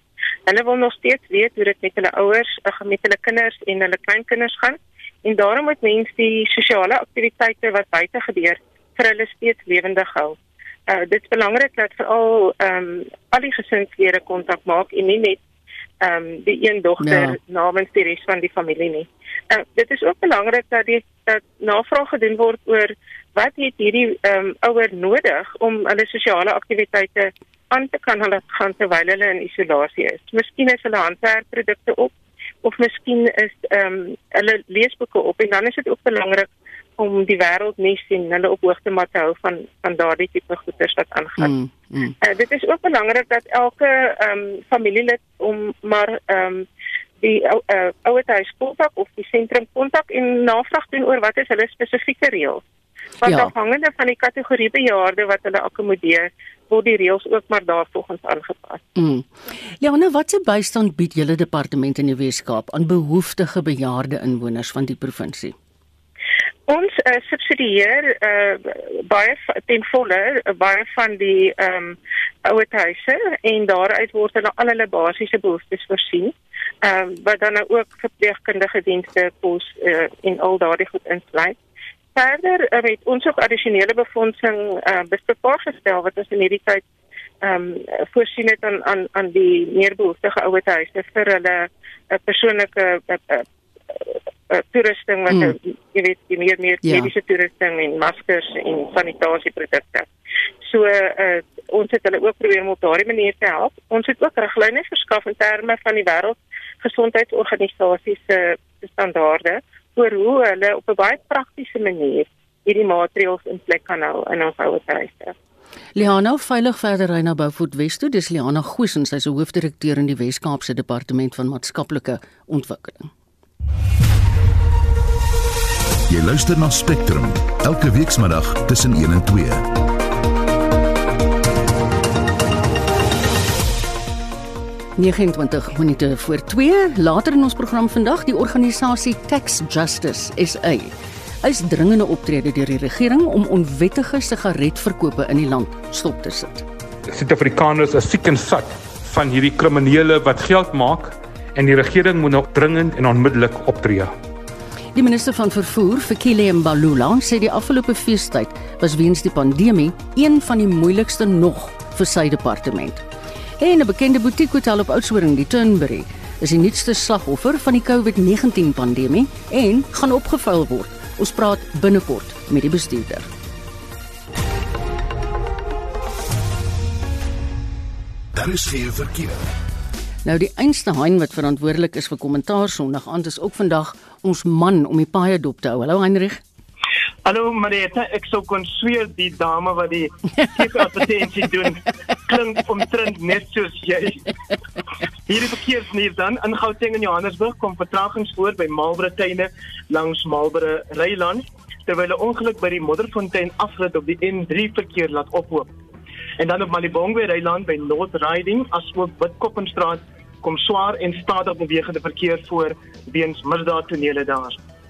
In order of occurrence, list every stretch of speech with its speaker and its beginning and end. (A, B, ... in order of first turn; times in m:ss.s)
0:00.5-0:10.4 A
0:10.9-0:15.4 A
0:16.0-0:32.1 A
0:17.0-0:17.4 B
0:32.6-0:36.5 A
0:37.0-0:41.5 A
0:41.4-0:42.1 B
0:42.2-0:46.6 A
0:47.2-0:52.6 A
0:53.2-0:58.8 A
0:53.2-0:53.5 B
0:59.0-0:59.3 B
0:59.8-1:05.6 B
1:06.7-1:21.6 A
1:22.1-1:26.8 A
1:27.4-1:40.1 A
1:36.8-1:37.1 B
1:40.6-1:55.3 A
1:56.0-2:03.1 B
2:06.1-2:09.7 C
2:15.0-2:26.7 B
2:27.1-2:34.1 D
2:34.9-2:43.0 B
2:43.6-2:53.3 B
2:58.3-2:59.4 C
3:00.2-3:06.4 B
3:07.2-3:14.2 E
3:15.3-3:25.7 E
3:26.4-3:34.6 E